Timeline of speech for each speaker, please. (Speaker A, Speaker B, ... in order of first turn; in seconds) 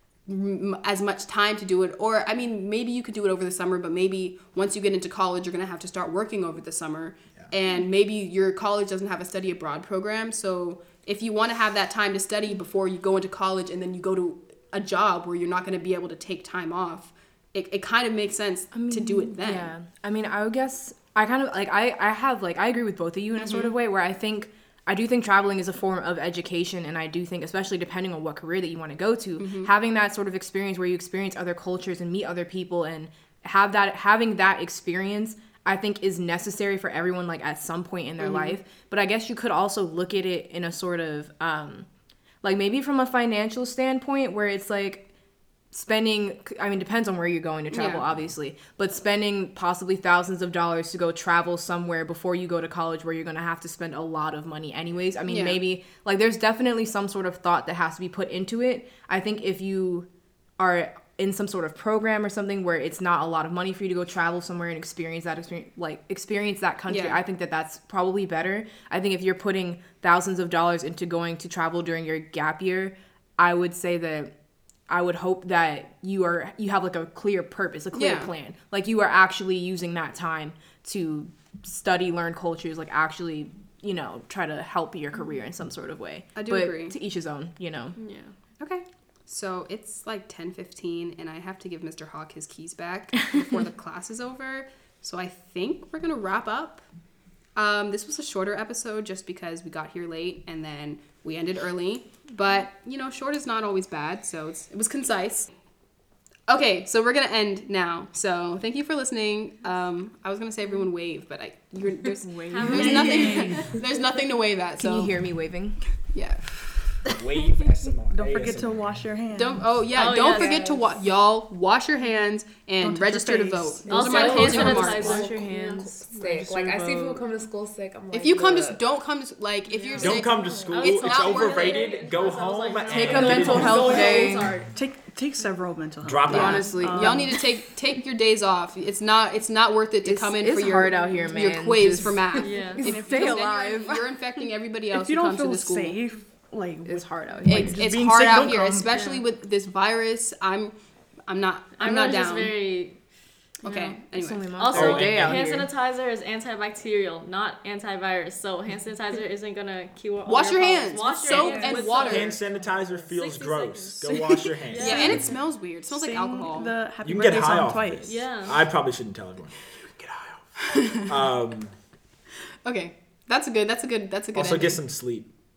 Speaker A: 0.3-19.7, 23.4-23.7, 29.4-29.7, 38.2-38.6, 47.7-48.0, 55.3-55.6, 66.9-67.2, 77.9-78.3, 86.3-87.0, 88.6-96.9, 97.5-105.5, 106.5-115.1, 116.1-116.8, 119.3-125.3, 128.1-131.9, 136.3-146.0, 147.4-150.7, 151.3-152.5, 153.6-154.4, 160.3-162.4, 164.8-166.7, 172.6-175.0
Speaker B: 18.7-41.9, 42.4-45.1, 45.7-60.1, 60.6-74.3, 74.9-88.0, 112.2-113.5, 114.8-115.9, 124.1-127.3, 132.9-134.6, 136.3-137.4, 140.0-144.1, 146.8-147.9, 154.1-155.7
Speaker C: 88.0-88.4, 112.5-113.9, 119.9-120.8, 123.9-125.9, 129.7-134.7, 140.8-141.3, 142.4-143.6, 148.9-149.2, 151.8-153.0, 153.6-154.0, 154.6-165.4, 168.0-168.6
Speaker D: 112.7-113.6, 118.1-120.0, 122.8-125.2, 134.7-137.6, 144.9-149.0, 161.3-161.8, 165.7-168.4
Speaker E: 117.1-119.1, 130.0-134.3, 136.0-136.9, 154.7-155.5, 161.8-165.4, 167.0-171.8, 174.3-175.3
Speaker F: 120.1-120.8, 126.0-128.8